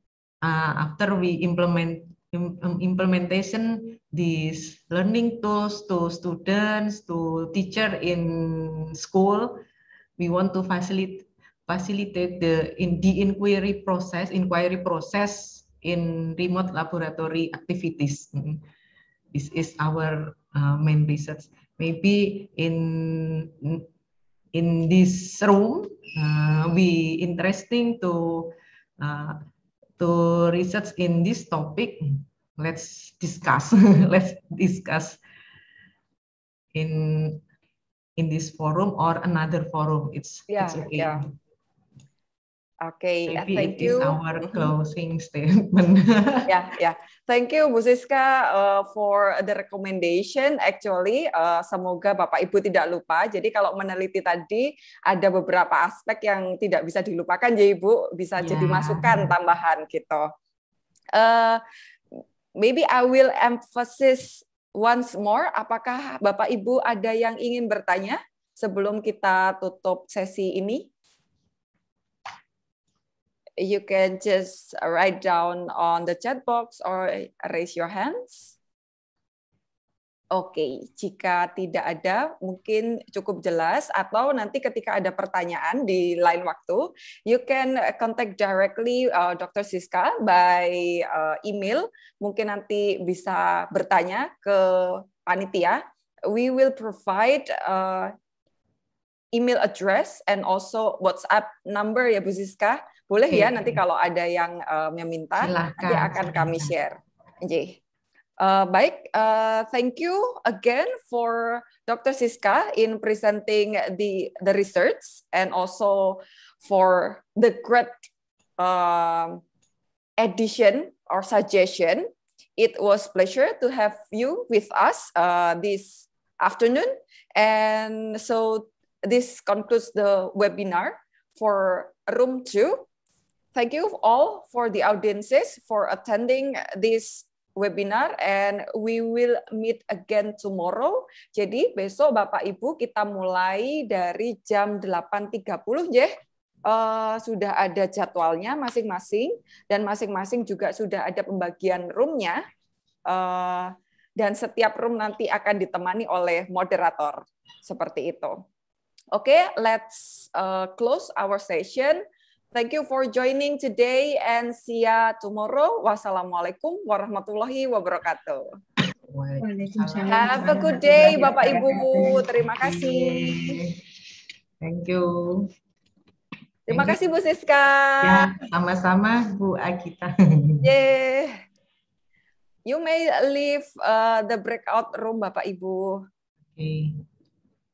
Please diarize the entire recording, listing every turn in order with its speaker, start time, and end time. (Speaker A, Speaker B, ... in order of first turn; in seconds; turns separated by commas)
Speaker A: 0.4-9.6, Speaker A: 10.2-18.6, Speaker A: 19.3-23.9, Speaker A: 24.5-29.4, Speaker A: 30.0-35.2, Speaker A: 36.7-37.4, Speaker A: 38.2-41.3, Speaker B: 40.5-41.3, Speaker B: 42.8-44.7, Speaker A: 43.3-46.5, Speaker B: 46.5-60.3, Speaker A: 58.4-59.3, Speaker B: 61.1-61.6, Speaker B: 62.6-70.9, Speaker B: 73.6-78.5, Speaker B: 80.3-98.1, Speaker B: 99.3-107.8, Speaker A: 103.3-103.8, Speaker A: 105.4-106.7, Speaker B: 108.4-119.4, Speaker B: 120.2-132.9, Speaker B: 133.5-146.1, Speaker B: 146.7-152.4, Speaker B: 153.1-158.4, Speaker B: 159.1-162.0, Speaker B: 162.5-168.4, Speaker A: 169.0-173.8, Speaker B: 170.1-173.4, Speaker A: 174.6-175.5, Speaker B: 176.7-178.3, Speaker A: 176.7-177.0, Speaker A: 178.0-180.6, Speaker B: 180.6-181.4, Speaker B: 182.7-186.0, Speaker A: 186.6-187.0